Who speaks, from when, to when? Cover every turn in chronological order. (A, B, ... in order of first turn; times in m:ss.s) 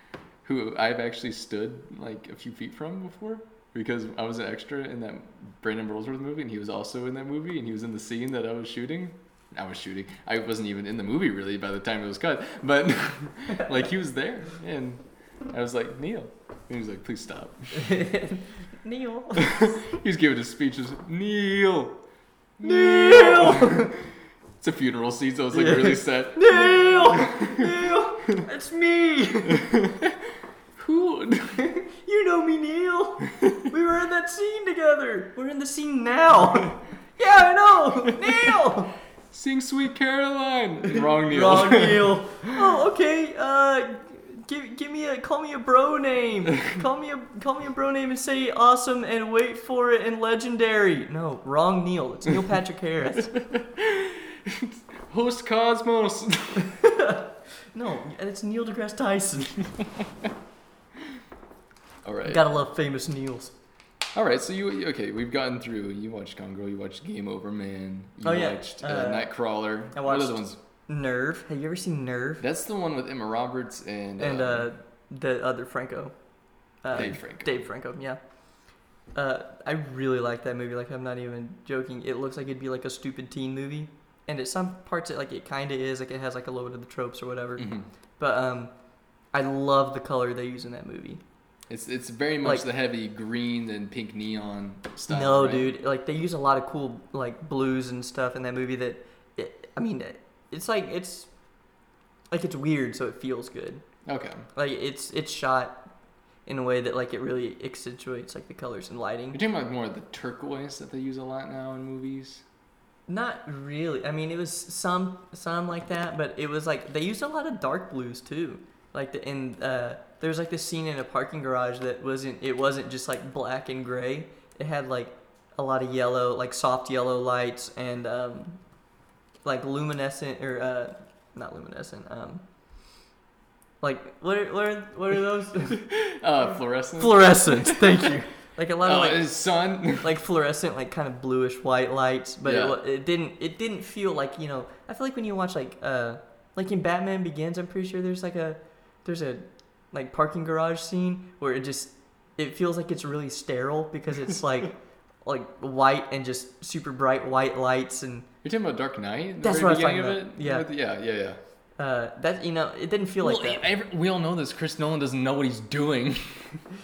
0:00.4-0:17.9 A
0:17.7-0:19.7 B
0:19.4-0:22.0 A
0:22.6-0:24.0 A
0:22.6-0:23.9 B
0:24.6-0:27.6 A
0:25.5-0:29.8 B
0:30.8-0:31.6 A
0:31.6-0:38.9 B
0:38.3-0:38.5 A
0:39.3-0:42.2 A
0:40.9-0:53.5 B
0:53.4-0:56.7 A
0:56.8-0:59.7 B
1:02.0-1:02.4 A
1:02.3-1:03.5 B
1:04.1-1:10.6 A
1:08.2-1:09.3 B
1:09.9-1:12.4 B
1:12.4-1:14.7 A
1:14.2-1:16.1 B
1:16.8-1:18.2 B
1:16.9-1:17.5 A
1:19.1-1:28.7 B
1:27.6-1:27.9 A
1:29.3-1:31.2 B
1:31.7-1:35.7 A
1:35.1-1:41.3 B
1:42.3-1:43.8 B
1:44.1-1:44.5 A
1:44.5-1:45.8 B
1:46.4-1:49.4 B
1:49.3-1:52.4 A
1:53.1-2:08.6 B
2:09.4-2:12.4 B
2:13.8-2:15.8 B
2:15.7-2:18.1 A
2:17.0-2:38.3 B
2:18.8-2:20.1 A
2:22.4-2:22.8 A
2:38.4-2:41.4 A
2:39.4-2:40.7 B
2:41.8-2:43.6 B
2:43.2-2:46.6 A